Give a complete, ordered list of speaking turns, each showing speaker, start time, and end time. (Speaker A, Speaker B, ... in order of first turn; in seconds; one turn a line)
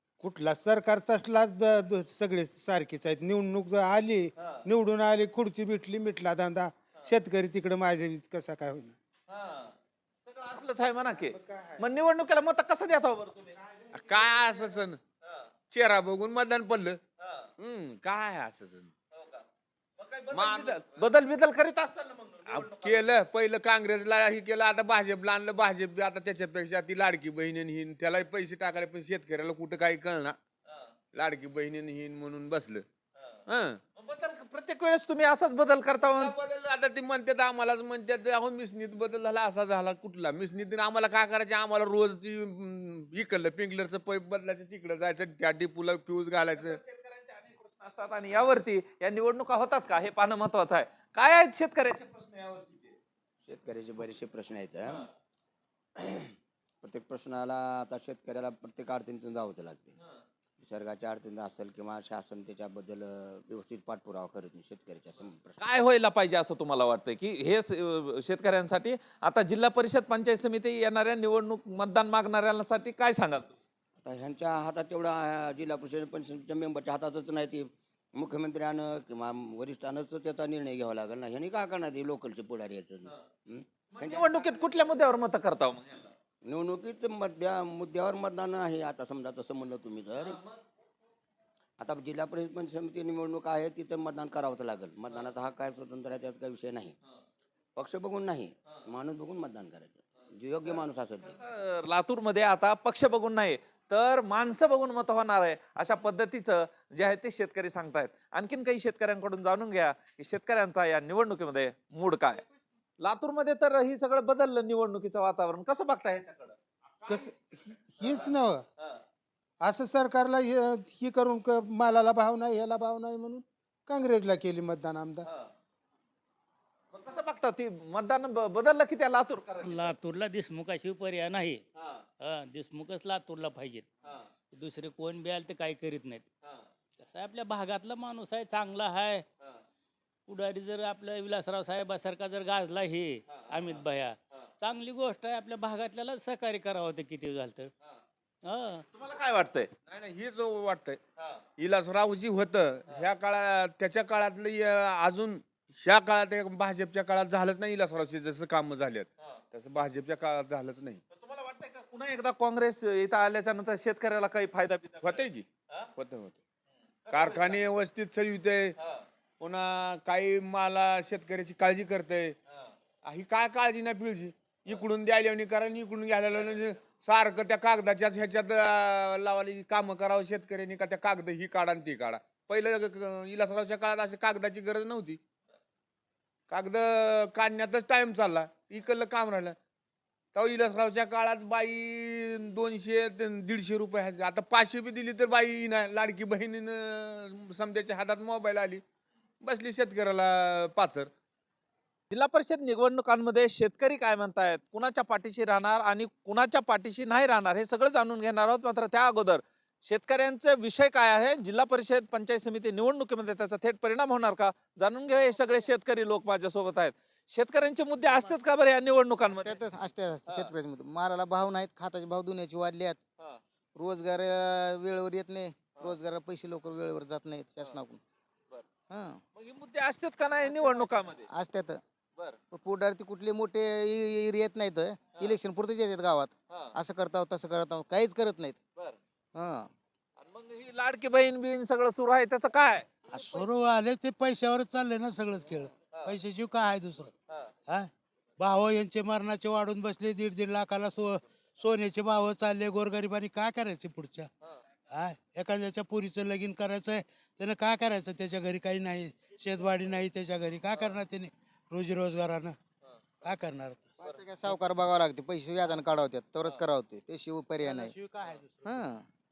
Speaker A: 0.2-8.9
Speaker B: 9.3-9.7
Speaker B: 10.2-13.6
Speaker A: 11.2-11.8
Speaker C: 13.9-15.0
Speaker C: 15.7-17.0
Speaker B: 17.2-17.5
Speaker C: 17.6-18.9
Speaker B: 19.1-19.4
Speaker B: 20.0-23.1
Speaker C: 20.3-21.0
Speaker C: 22.5-30.4
Speaker C: 31.1-32.8
Speaker C: 33.5-33.8
Speaker B: 34.0-36.3
Speaker C: 36.0-46.8
Speaker B: 46.5-53.0
Speaker D: 53.4-55.1
Speaker D: 56.0-60.0
Speaker D: 60.6-65.6
Speaker B: 65.6-73.5
Speaker D: 74.0-84.9
Speaker B: 83.9-86.1
Speaker D: 86.4-90.4
Speaker B: 90.2-90.6
Speaker D: 91.8-96.9
Speaker D: 97.8-101.3
Speaker B: 100.6-112.4
Speaker B: 113.0-116.5
Speaker A: 117.0-118.6
Speaker B: 118.0-119.0
Speaker A: 119.6-125.3
Speaker B: 125.2-125.5
Speaker B: 126.9-129.9
Speaker E: 129.6-131.6
Speaker B: 131.7-132.0
Speaker E: 132.2-133.9
Speaker E: 134.5-136.2
Speaker E: 137.0-139.2
Speaker E: 140.3-147.7
Speaker B: 143.3-143.8
Speaker E: 148.4-148.8
Speaker B: 148.9-149.7
Speaker C: 149.9-151.0
Speaker C: 151.6-161.0
Speaker B: 161.1-165.9
Speaker C: 165.0-166.4
Speaker B: 167.1-167.6
Speaker C: 167.1-168.8
Speaker C: 169.4-172.3
Speaker C: 173.0-185.2
Speaker C: 186.5-189.6
Speaker C: 190.3-198.8
Speaker C: 199.4-201.1
Speaker B: 202.1-219.6
Speaker F: 219.3-223.0
Speaker F: 223.8-228.0
Speaker F: 228.9-229.2
Speaker B: 229.3-231.3
Speaker F: 230.4-231.8
Speaker F: 232.5-238.6
Speaker F: 239.3-239.7
Speaker B: 240.2-242.8
Speaker G: 243.1-247.1
Speaker G: 247.7-254.3
Speaker G: 254.9-262.6
Speaker B: 262.8-263.2
Speaker G: 263.2-264.0
Speaker F: 264.0-267.9
Speaker G: 267.6-268.8
Speaker F: 268.6-269.0